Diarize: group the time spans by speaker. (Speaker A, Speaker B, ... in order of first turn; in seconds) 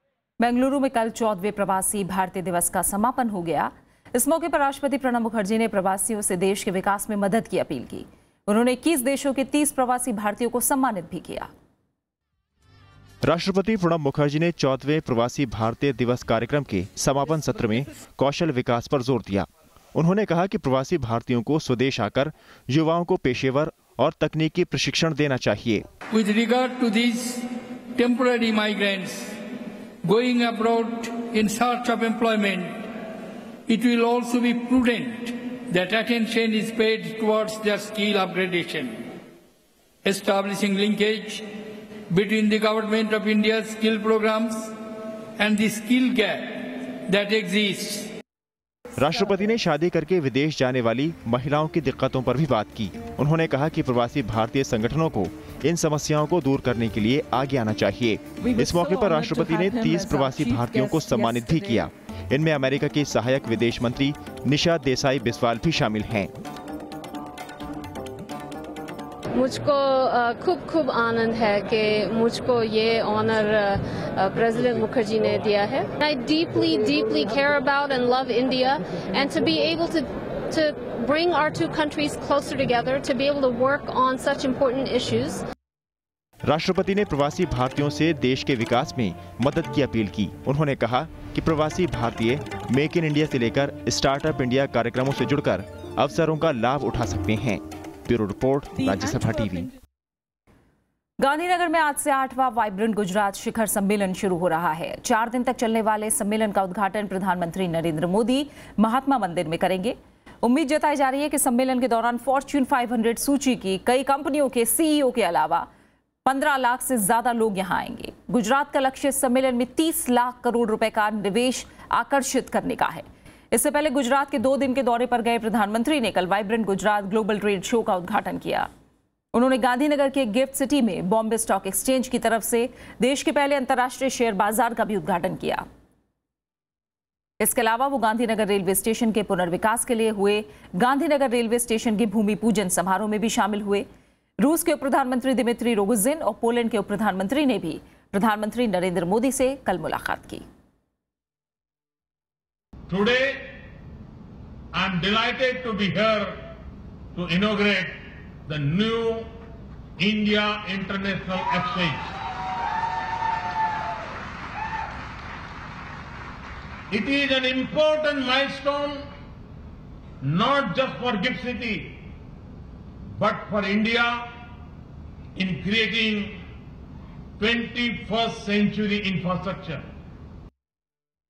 Speaker A: 0.4-11.5, 101.2-115.7, 116.3-128.7, 129.3-135.7, 137.4-143.9, 144.4-150.4
Speaker B: 13.2-25.9, 49.0-66.3, 86.5-99.7
Speaker C: 26.1-29.4, 30.0-32.9, 33.7-39.0, 40.0-41.5, 42.1-44.7, 45.4-48.1
Speaker D: 69.3-85.4
Speaker E: 152.9-153.6, 154.7-156.5, 157.2-159.3, 160.0-162.1, 166.9-169.1, 170.2-172.0, 173.2-174.3, 175.4-176.4, 177.4-179.9